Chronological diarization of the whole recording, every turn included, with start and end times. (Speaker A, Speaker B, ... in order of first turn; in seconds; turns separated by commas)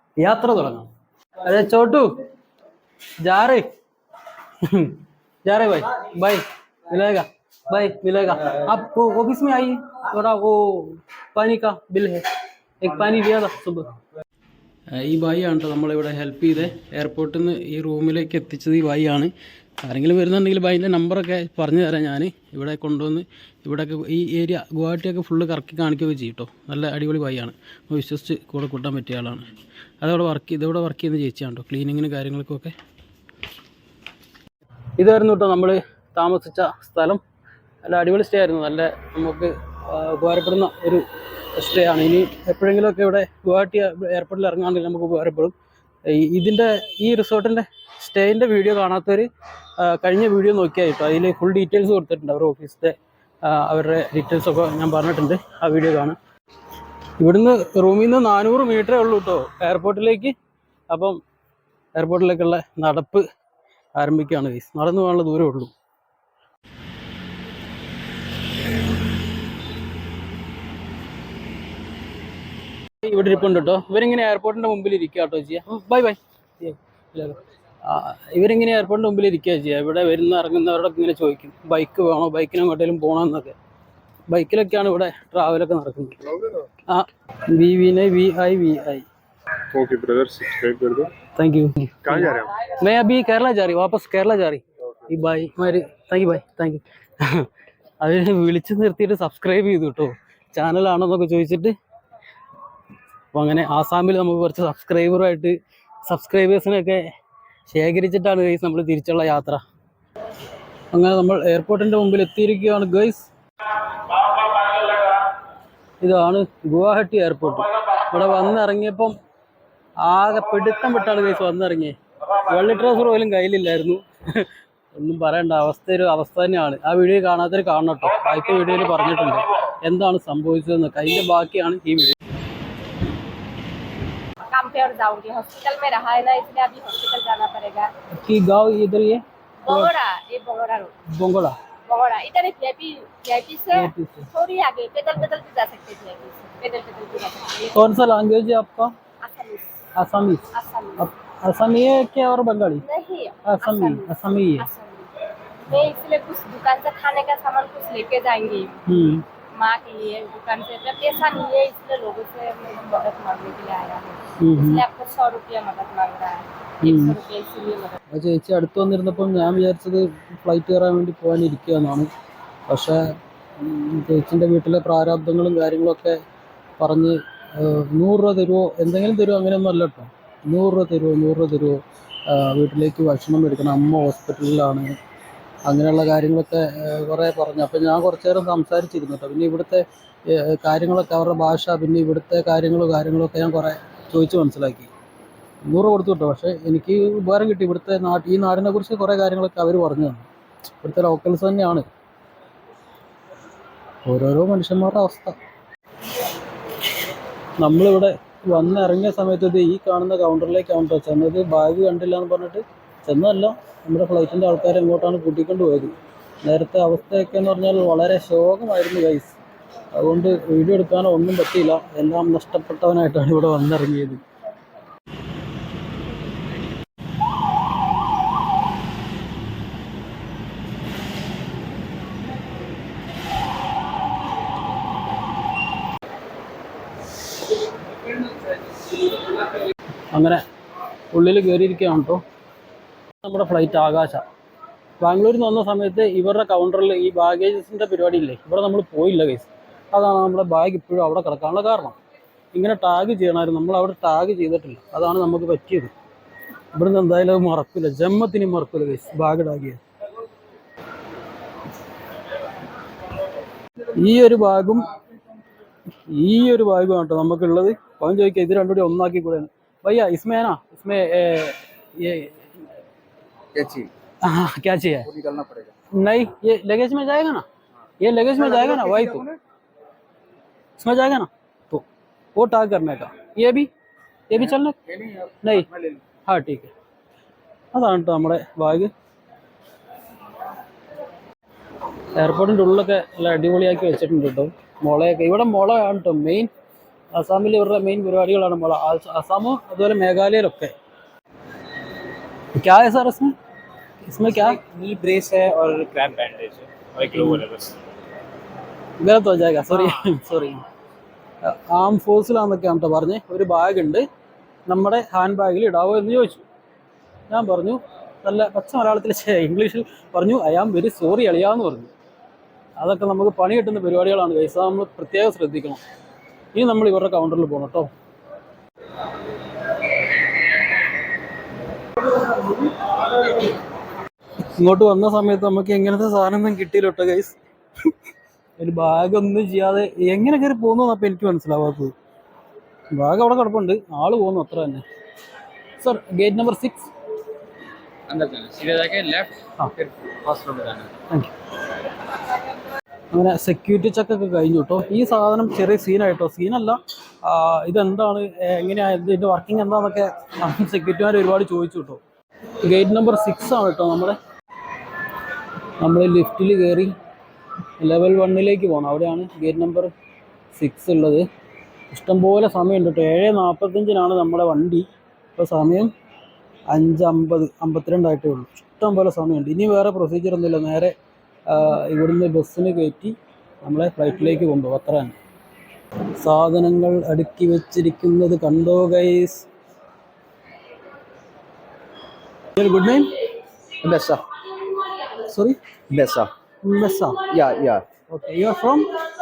Speaker A: 0.2-0.9, Speaker A: 1.4-2.2, Speaker A: 3.2-3.7, Speaker A: 4.6-12.2, Speaker A: 12.8-14.0, Speaker A: 14.9-29.5, Speaker A: 30.0-32.7, Speaker A: 35.0-37.2, Speaker A: 37.8-45.5, Speaker A: 46.0-56.2, Speaker A: 57.2-60.3, Speaker A: 60.9-61.2, Speaker A: 61.9-63.2, Speaker A: 63.9-65.7, Speaker A: 73.0-83.5, Speaker A: 84.3-86.2, Speaker A: 86.8-89.0, Speaker B: 89.7-91.1, Speaker A: 91.2-97.5, Speaker B: 92.1-92.4, Speaker A: 98.0-101.8, Speaker A: 103.3-107.1, Speaker A: 107.7-109.6, Speaker A: 110.9-113.3, Speaker A: 113.9-115.0, Speaker A: 116.0-119.2, Speaker A: 120.0-132.2, Speaker C: 134.5-137.9, Speaker A: 138.1-139.9, Speaker C: 139.7-140.9, Speaker A: 141.1-141.6, Speaker C: 141.9-147.8, Speaker A: 143.7-144.3, Speaker A: 147.7-148.9, Speaker C: 149.2-149.7, Speaker A: 149.9-152.8, Speaker C: 150.5-151.1, Speaker C: 152.8-155.1, Speaker A: 153.4-154.7, Speaker C: 155.7-158.8, Speaker A: 158.8-159.2, Speaker C: 159.5-168.0, Speaker A: 164.4-164.8, Speaker A: 166.8-167.2, Speaker A: 168.1-172.1, Speaker A: 172.7-176.2, Speaker A: 176.8-185.0, Speaker A: 185.6-194.9, Speaker A: 195.6-201.8, Speaker A: 204.0-205.3, Speaker A: 207.6-219.4, Speaker A: 219.9-224.2, Speaker A: 238.9-239.5, Speaker A: 240.1-240.4, Speaker A: 241.1-242.2, Speaker A: 243.2-244.2, Speaker A: 245.0-252.0, Speaker A: 252.5-255.9, Speaker A: 256.7-259.8, Speaker A: 263.8-264.9, Speaker A: 265.9-272.5, Speaker D: 273.5-273.9, Speaker A: 274.2-275.1, Speaker D: 275.1-275.7, Speaker A: 275.9-277.4, Speaker A: 278.0-279.3, Speaker A: 280.8-281.8, Speaker A: 282.3-283.7, Speaker A: 284.3-285.7, Speaker A: 286.2-286.7, Speaker A: 287.7-288.9, Speaker A: 292.1-296.5, Speaker A: 297.1-300.7, Speaker A: 302.5-303.4, Speaker A: 304.0-304.6, Speaker E: 304.6-306.6, Speaker B: 306.0-307.7, Speaker A: 307.0-307.4, Speaker A: 309.0-310.6, Speaker A: 311.4-314.1, Speaker A: 314.6-316.4, Speaker A: 317.3-321.9, Speaker A: 322.8-325.8, Speaker A: 326.5-327.9, Speaker A: 332.1-333.4, Speaker A: 334.4-337.4, Speaker A: 338.6-341.9, Speaker A: 342.9-344.8, Speaker A: 345.8-346.9, Speaker E: 348.1-349.3, Speaker B: 348.3-349.3, Speaker B: 349.8-350.8, Speaker E: 350.3-350.8, Speaker A: 353.1-362.0, Speaker A: 362.6-364.2, Speaker A: 365.8-366.9, Speaker A: 367.8-369.9, Speaker A: 370.5-371.2, Speaker A: 371.9-375.9, Speaker A: 376.7-380.9, Speaker A: 381.5-385.2, Speaker A: 386.1-389.4, Speaker A: 392.6-393.1, Speaker D: 393.8-394.2, Speaker A: 395.0-395.6, Speaker D: 395.9-396.3, Speaker A: 396.6-397.3, Speaker D: 397.3-397.8, Speaker A: 398.1-398.9